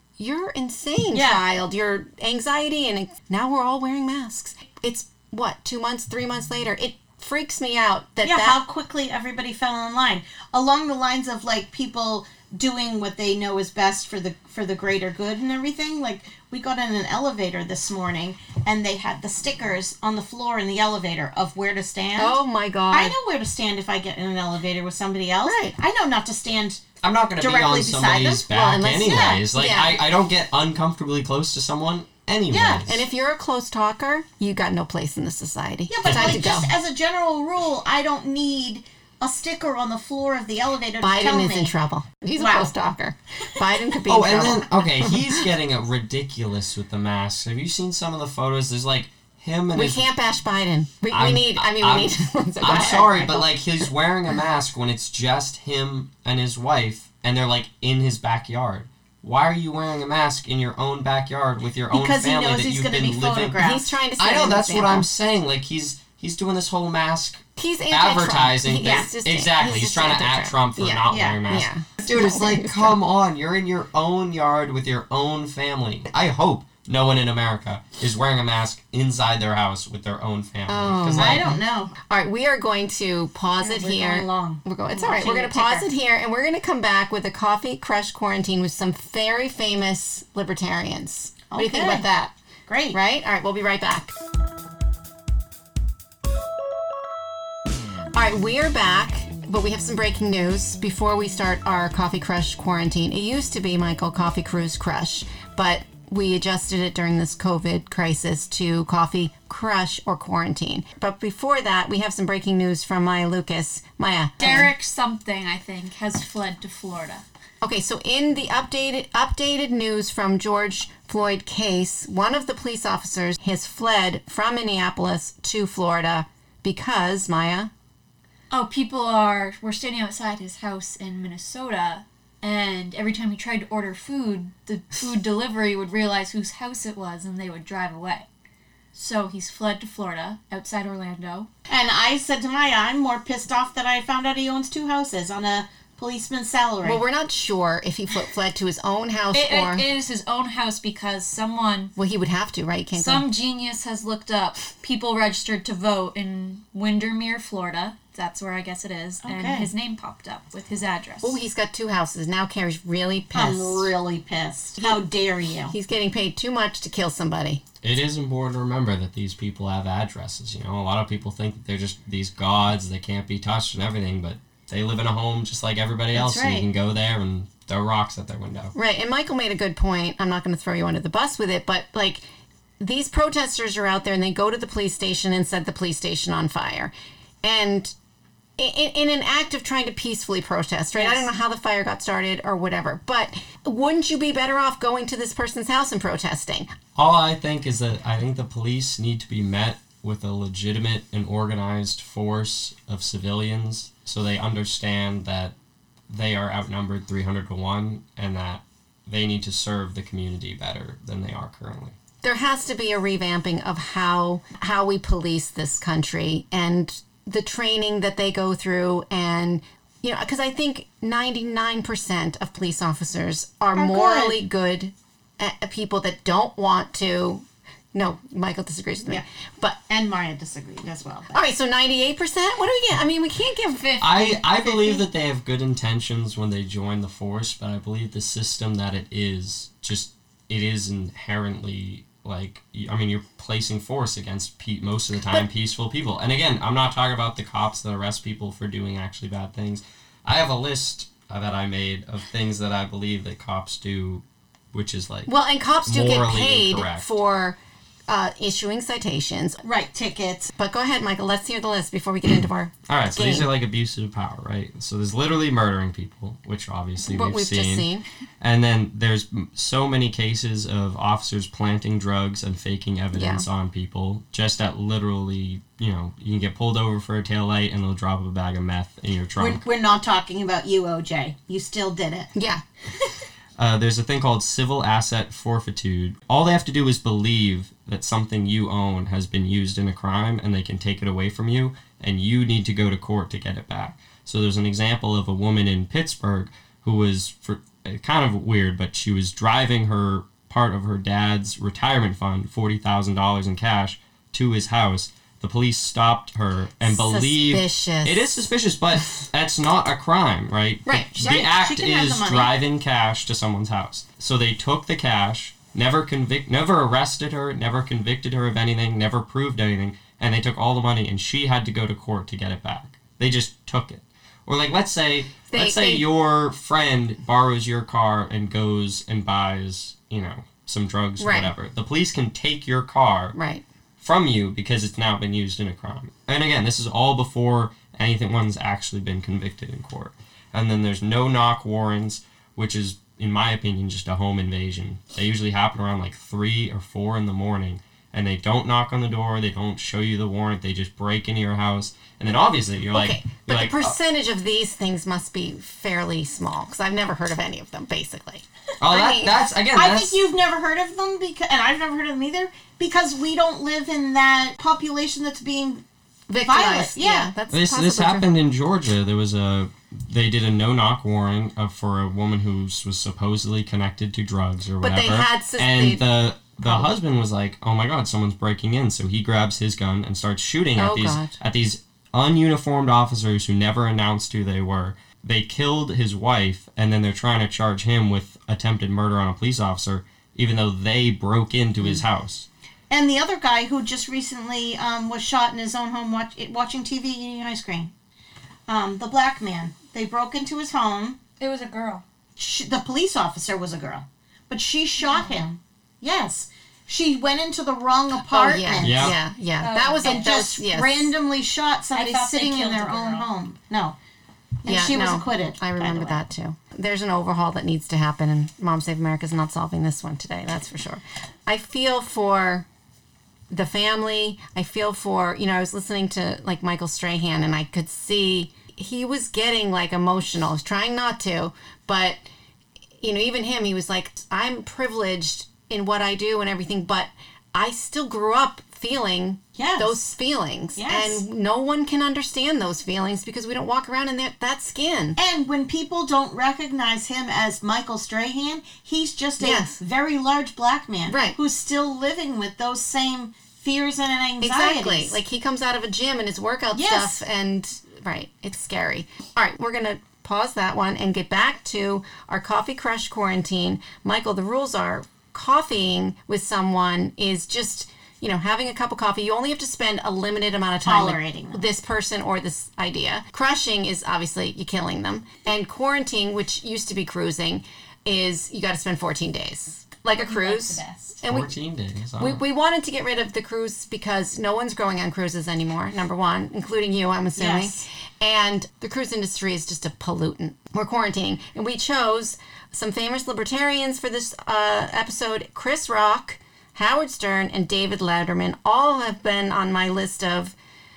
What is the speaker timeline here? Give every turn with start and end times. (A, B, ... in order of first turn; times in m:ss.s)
0:00.2-0:08.6 A
0:01.1-0:01.4 B
0:08.2-0:22.4 B
0:22.2-0:23.1 A
0:22.9-0:26.8 B
0:25.4-0:25.7 A
0:27.0-0:33.0 C
0:27.4-0:29.4 B
0:28.5-0:29.9 A
0:32.5-0:32.9 B
0:32.9-0:36.7 A
0:35.9-0:41.7 B
0:36.0-0:36.7 C
0:41.0-0:45.4 A
0:42.4-0:42.7 B
0:44.0-0:50.1 C
0:49.7-0:53.8 A
0:51.1-1:03.6 C
1:01.9-1:04.0 B
1:03.6-1:05.1 A
1:04.2-1:21.5 C
1:07.6-1:12.9 A
1:11.1-1:11.4 B
1:20.7-1:32.3 A
1:21.1-1:21.9 B
1:23.6-1:25.9 B
1:31.5-1:32.0 B
1:32.7-1:33.0 B
1:32.9-1:34.1 A
1:38.1-1:54.7 A
1:54.4-1:57.2 D
1:57.6-2:07.7 A
2:08.5-2:18.3 D
2:18.9-2:21.5 D
2:21.7-2:27.0 B
2:26.8-2:29.8 A
2:29.3-2:31.9 D
2:32.0-2:33.3 A
2:32.9-2:41.4 D
2:39.2-2:39.7 B
2:41.2-2:43.9 A
2:43.3-2:45.7 B
2:45.7-2:47.6 A
2:47.8-2:58.7 C
2:56.1-2:56.7 B
2:58.8-3:02.2 A
3:02.8-3:06.9 A
3:07.4-3:07.9 A
3:08.6-3:16.7 A
3:11.0-3:11.3 B
3:17.0-3:25.5 C
3:26.1-3:32.0 C
3:32.2-3:49.8 A
3:43.8-3:44.4 B
3:49.9-3:51.4 B
3:51.3-3:55.0 A
3:54.0-4:15.3 C
4:15.3-4:17.6 A
4:15.8-4:17.1 C
4:18.1-4:19.6 A
4:19.6-4:20.5 B
4:20.6-4:23.5 A
4:22.9-4:27.9 C
4:27.0-4:28.0 A
4:28.4-4:39.6 C
4:33.1-4:33.5 A
4:39.4-4:42.3 B
4:42.4-4:42.6 A
4:43.6-5:33.4 C
5:06.8-5:08.5 A
5:10.9-5:11.3 A
5:11.2-5:12.5 B
5:25.5-5:26.0 A
5:31.2-5:31.5 A
5:33.3-5:33.6 A
5:34.0-5:53.9 C
5:52.9-5:59.4 A
5:58.8-6:00.2 C
5:59.7-6:05.8 B
6:06.3-6:08.3 A
6:06.4-6:07.3 B
6:07.5-6:32.5 C
6:14.8-6:16.0 A
6:16.6-6:16.9 A
6:20.8-6:21.3 A
6:32.9-6:37.9 B
6:38.7-6:41.2 B
6:41.4-6:42.0 D
6:42.4-6:49.2 B
6:45.0-6:45.4 D
6:48.3-6:51.1 A
6:48.8-6:49.2 C
6:49.6-6:50.3 D
6:50.0-6:54.0 B
6:52.0-6:53.3 D
6:54.6-6:56.2 B
6:54.6-7:02.7 A
7:03.5-7:12.2 A
7:13.0-7:25.2 A
7:19.6-7:20.0 B
7:20.8-7:21.2 B
7:25.2-7:35.2 B
7:29.4-7:29.8 A
7:31.1-7:31.4 A
7:34.4-8:01.5 A
7:36.8-7:37.2 B
7:50.8-7:51.7 B
8:00.2-8:01.1 B
8:01.2-8:02.4 C
8:02.2-8:20.5 A
8:07.4-8:07.8 B